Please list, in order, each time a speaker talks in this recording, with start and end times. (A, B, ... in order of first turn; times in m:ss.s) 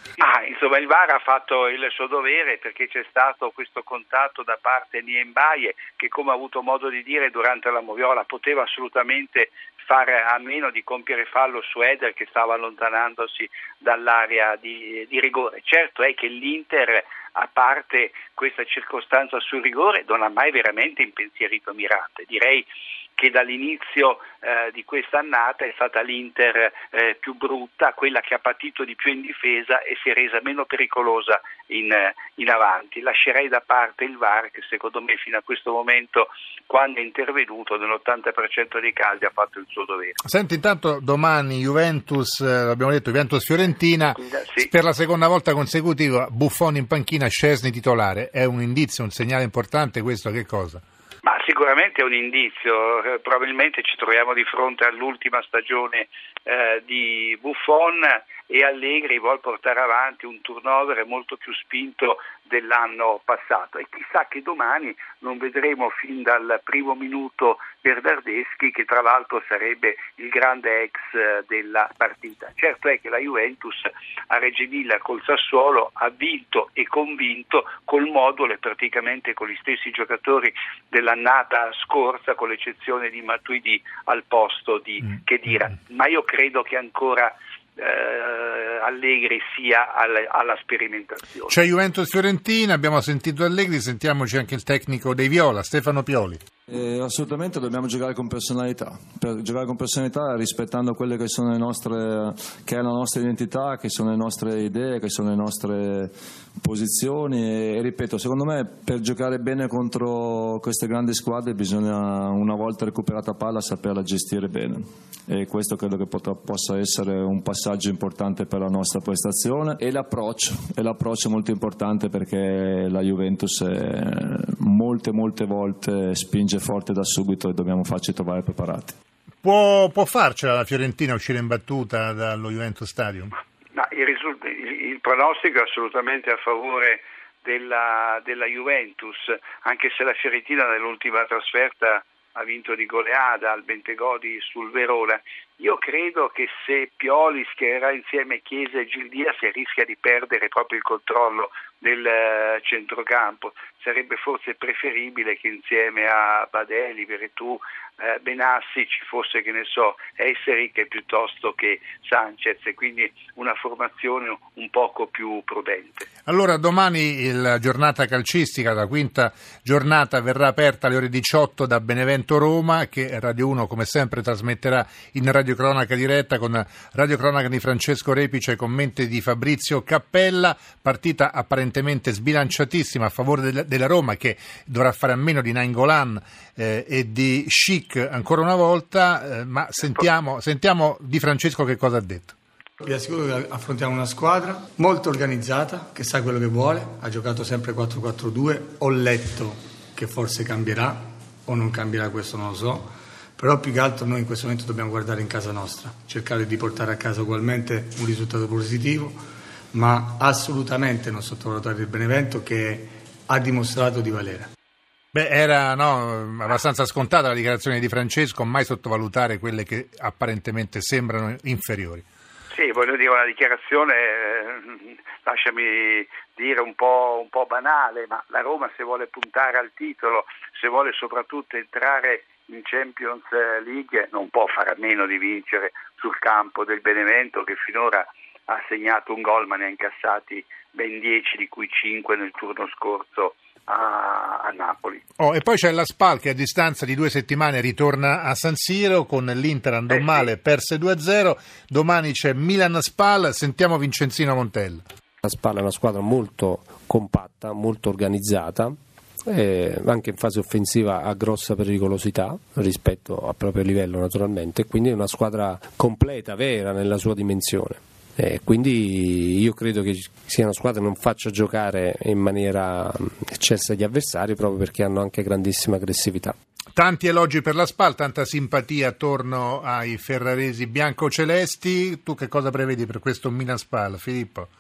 0:00.2-0:40.2 A
0:40.2-0:50.8 B
0:44.1-0:44.7 A
0:51.2-1:31.5 A
1:31.5-1:36.4 B
1:36.7-2:09.0 C
2:09.4-2:13.3 B
2:13.7-2:46.1 A
2:46.3-3:12.4 B
3:12.8-3:29.2 D
3:29.7-3:34.5 D
3:35.1-3:42.0 B
3:42.5-4:05.0 A
4:05.2-4:14.8 B
4:09.9-4:10.3 A
4:15.2-4:18.8 E
4:19.3-4:36.3 E
4:36.8-4:44.5 B